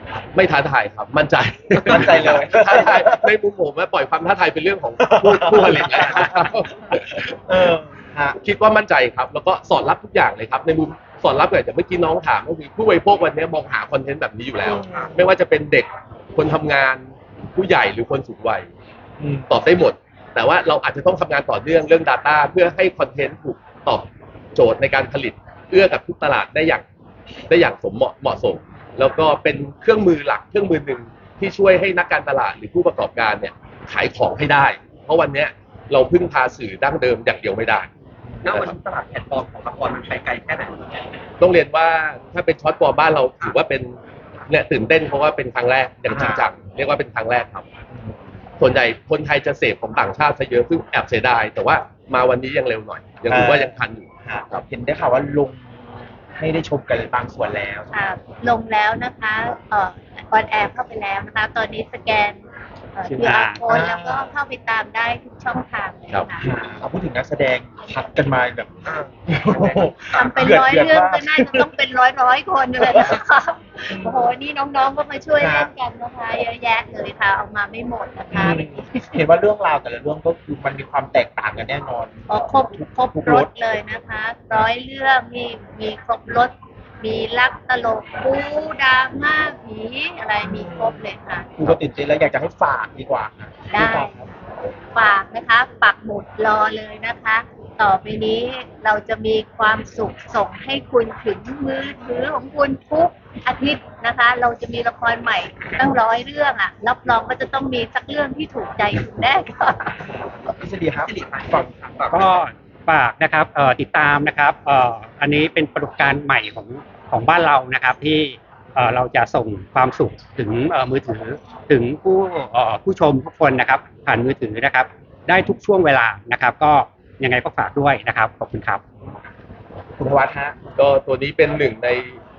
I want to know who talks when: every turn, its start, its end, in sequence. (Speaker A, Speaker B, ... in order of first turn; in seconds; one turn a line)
Speaker A: 0.3-7.4
Speaker B: 1.9-3.3
Speaker B: 5.0-6.5
Speaker B: 7.5-8.4
Speaker A: 8.4-18.7
Speaker B: 14.6-15.2
Speaker B: 19.2-19.5
Speaker A: 19.5-26.8
Speaker A: 27.5-37.9
Speaker B: 38.3-38.8
Speaker C: 38.4-40.8
Speaker A: 41.4-47.6
Speaker B: 46.1-46.5
Speaker A: 48.6-54.6
Speaker B: 53.3-57.9
Speaker D: 57.9-62.4
Speaker D: 63.0-66.5
Speaker E: 63.1-63.6
Speaker B: 63.2-64.3
Speaker B: 66.4-71.7
Speaker C: 68.8-70.6
Speaker D: 70.1-79.0
Speaker B: 72.8-73.1
Speaker B: 73.9-74.2
Speaker B: 75.4-75.7
Speaker B: 78.3-83.6
Speaker D: 82.3-91.5
Speaker B: 90.4-91.0
Speaker B: 91.6-94.2
Speaker D: 93.7-94.1
Speaker D: 95.0-110.0
Speaker B: 110.6-111.8
Speaker C: 110.9-112.4
Speaker E: 112.1-128.8
Speaker B: 130.0-130.6
Speaker A: 130.8-132.2